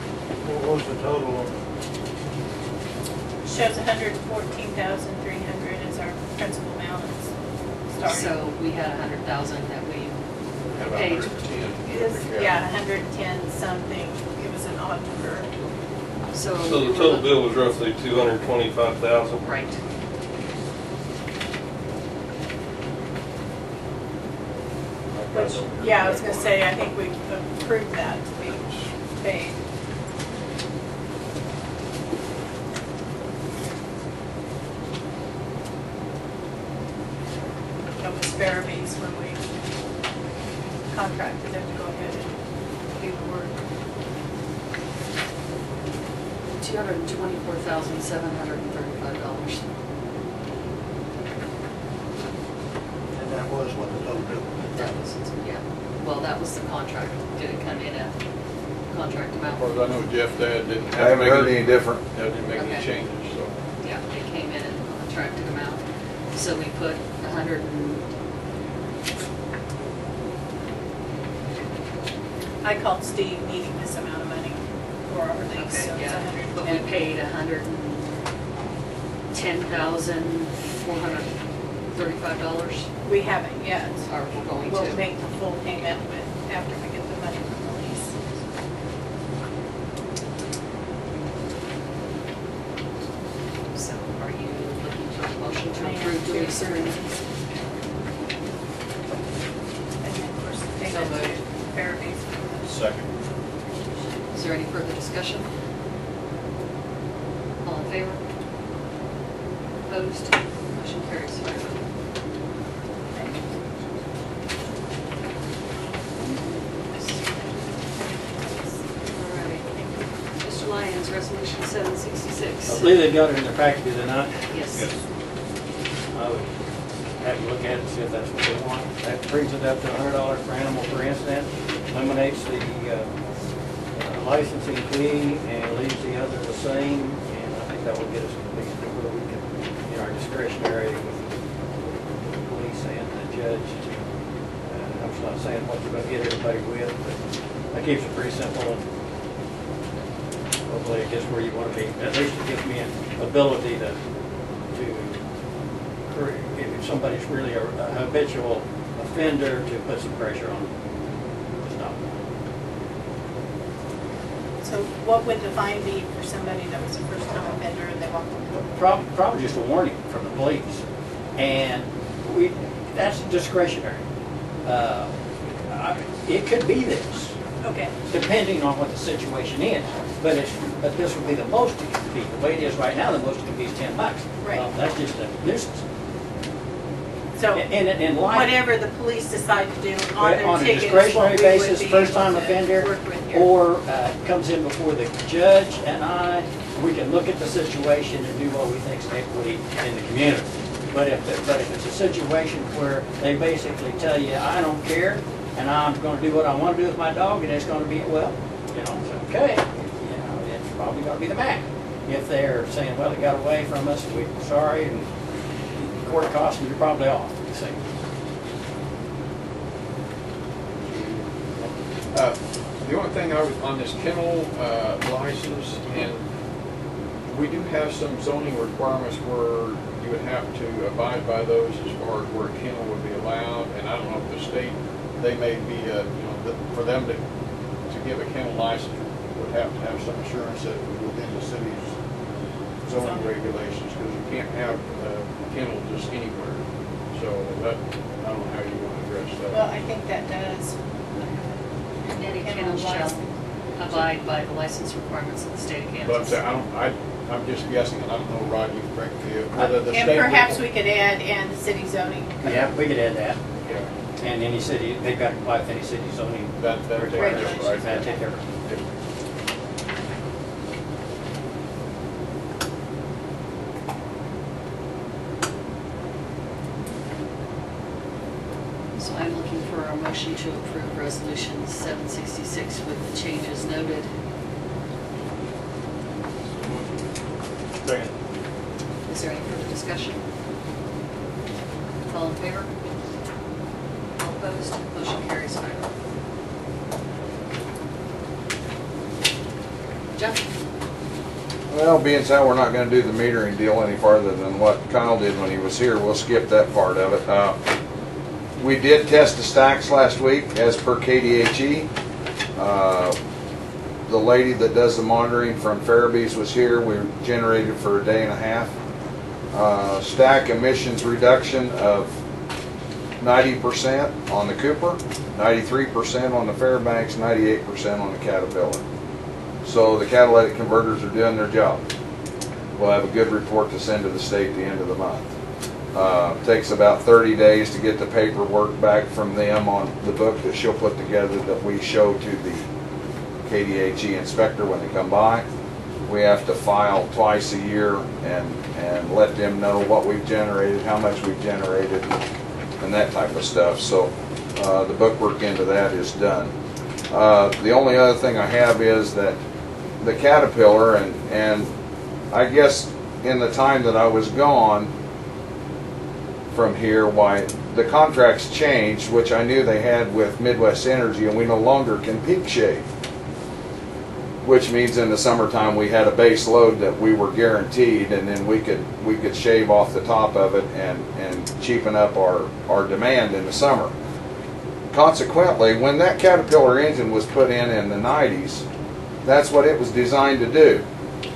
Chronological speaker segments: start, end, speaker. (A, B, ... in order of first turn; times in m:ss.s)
0:00.4-0:01.5 A
0:03.4-0:07.3 B
0:07.9-0:08.3 B
0:08.0-0:10.2 C
0:10.8-0:12.6 D
0:10.8-0:11.5 C
0:11.9-0:15.5 B
0:16.3-0:17.3 C
0:16.6-0:19.4 E
0:19.4-0:19.7 C
0:25.2-0:26.6 D
0:25.3-0:29.6 B
0:38.0-0:39.4 B
0:40.9-0:42.3 B
0:43.0-0:43.5 C
0:46.6-0:49.6 C
0:53.1-0:54.9 A
0:54.7-0:58.1 C
0:58.9-0:59.6 C
0:59.6-1:03.5 D
1:00.9-1:02.0 F
1:02.5-1:02.9 C
1:03.8-1:05.8 C
1:06.3-1:08.0 C
1:12.6-1:16.9 B
1:15.5-1:18.1 C
1:19.3-1:21.3 C
1:21.9-1:22.9 C
1:23.0-1:24.0 B
1:24.1-1:25.1 C
1:24.6-1:28.2 B
1:33.7-1:37.0 C
1:35.7-1:37.1 B
1:40.0-1:42.8 B
1:40.8-1:41.3 C
1:44.3-1:45.5 C
1:47.6-1:48.2 C
1:49.9-1:51.8 C
1:57.3-1:58.7 B
1:59.1-1:59.7 C
1:59.8-2:00.0 B
2:00.4-2:03.0 C
2:02.7-2:04.5 G
2:04.5-2:04.8 C
2:06.1-2:06.5 G
2:07.2-2:13.1 G
2:14.0-2:21.3 G
2:22.3-2:24.0 G
2:24.7-2:27.2 G
2:27.7-2:28.8 G
2:30.7-2:34.0 G
2:34.7-2:35.2 G
2:36.1-2:40.7 G
2:41.6-2:42.1 G
2:44.6-2:48.7 B
2:48.7-2:50.8 G
2:51.4-2:54.0 G
2:54.6-2:57.3 G
2:57.6-2:57.9 B
2:58.1-3:05.8 G
3:04.4-3:04.7 B
3:07.4-3:13.5 B
3:07.5-3:08.5 G
3:10.2-3:35.1 G
3:35.8-3:37.8 G
3:40.9-3:41.2 D
3:42.1-3:46.2 D
3:47.3-3:57.2 D
3:57.9-4:01.9 D
4:02.8-4:06.6 D
4:03.0-4:03.3 B
4:07.1-4:09.7 D
4:09.5-4:10.7 B
4:12.1-4:13.2 C
4:12.4-4:13.3 B
4:13.8-4:16.4 C
4:13.9-4:14.2 B
4:16.0-4:20.6 D
4:19.9-4:22.7 B
4:22.4-4:23.4 G
4:24.2-4:28.4 G
4:26.6-4:28.8 D
4:27.2-4:28.2 B
4:39.0-4:44.1 C
4:49.0-4:50.2 C
4:52.1-4:52.7 C
4:54.2-4:55.9 C
5:00.2-5:00.4 C
5:01.7-5:07.6 F
5:08.6-5:11.9 F
5:12.6-5:13.2 F
5:14.1-5:18.7 F
5:19.5-5:22.1 F
5:23.2-5:28.8 F
5:29.6-5:31.8 F
5:32.8-5:35.3 F
5:35.9-5:42.6 F
5:43.4-5:45.4 F
5:46.0-5:52.1 F
5:52.8-5:56.5 F
5:57.1-5:59.4 F
6:00.0-6:01.7 F
6:02.3-6:04.9 F
6:06.5-6:12.8 F
6:14.4-6:23.9 F
6:24.9-6:28.6 F
6:29.2-6:30.8 F